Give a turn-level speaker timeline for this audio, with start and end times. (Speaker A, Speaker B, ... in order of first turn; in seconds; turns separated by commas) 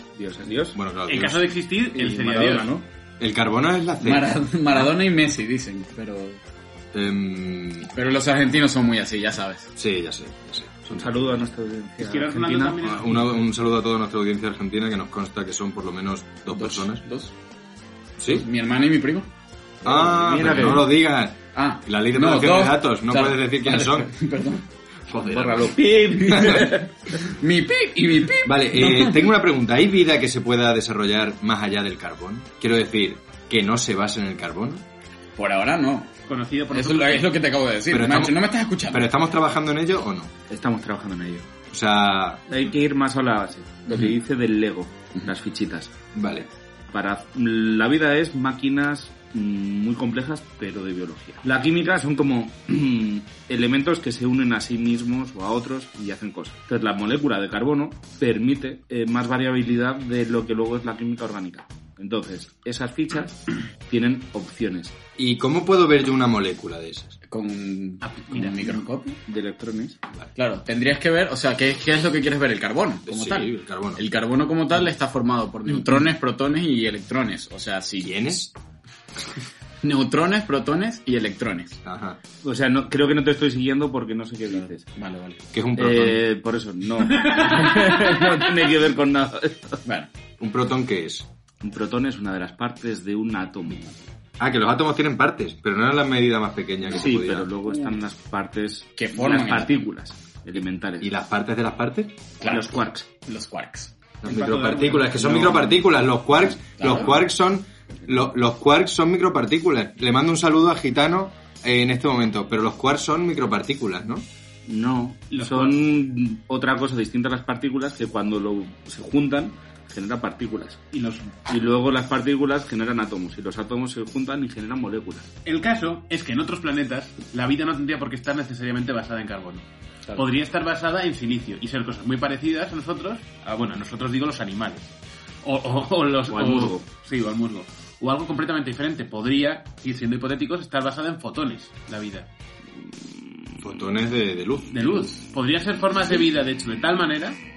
Speaker A: 0.1-0.8, Speaker B: 0.7-1.5, Speaker C: 1.1-2.7, Speaker A: 1.9-2.9, Speaker B: 3.2-4.9, Speaker D: 4.0-6.4, Speaker B: 6.9-7.9, Speaker D: 7.9-9.7, Speaker B: 9.8-11.5, Speaker A: 10.9-12.8, Speaker C: 12.0-13.1, Speaker B: 12.8-17.0, Speaker D: 16.5-17.3, Speaker B: 18.2-18.5, Speaker D: 18.3-19.3, Speaker A: 19.8-20.9, Speaker B: 19.8-24.1, Speaker D: 20.5-20.8, Speaker D: 21.5-24.6, Speaker B: 25.1-26.7, Speaker A: 25.2-27.0, Speaker D: 26.3-26.6, Speaker D: 27.2-29.2, Speaker B: 28.4-34.8, Speaker D: 35.3-36.1, Speaker C: 36.3-37.3, Speaker D: 36.7-39.1, Speaker B: 37.9-40.3, Speaker A: 40.5-41.5, Speaker B: 41.7-42.4, Speaker A: 42.5-45.9, Speaker B: 46.1-46.5, Speaker A: 46.9-64.9, Speaker B: 65.2-67.1, Speaker D: 67.3-69.2, Speaker C: 68.0-68.6, Speaker A: 69.2-70.0, Speaker D: 70.3-78.3, Speaker B: 73.0-74.0, Speaker B: 78.0-78.5, Speaker D: 79.8-81.8, Speaker B: 81.8-82.2, Speaker A: 82.4-84.9, Speaker D: 84.5-85.4, Speaker B: 85.5-86.2, Speaker A: 85.8-89.8, Speaker D: 89.8-90.1, Speaker B: 90.4-91.3, Speaker A: 91.6-94.0, Speaker B: 94.4-97.5, Speaker A: 96.9-101.1, Speaker D: 97.7-98.0, Speaker D: 99.0-99.8, Speaker B: 101.0-102.2, Speaker D: 102.4-103.9, Speaker A: 102.4-103.1, Speaker B: 104.2-114.2, Speaker C: 104.3-105.4, Speaker D: 106.8-107.1, Speaker A: 114.7-120.8, Speaker C: 115.3-115.8, Speaker C: 120.9-121.4, Speaker A: 121.5-125.3, Speaker C: 125.5-134.9, Speaker C: 135.4-142.3, Speaker A: 136.3-136.9, Speaker B: 143.6-145.2, Speaker C: 144.7-147.4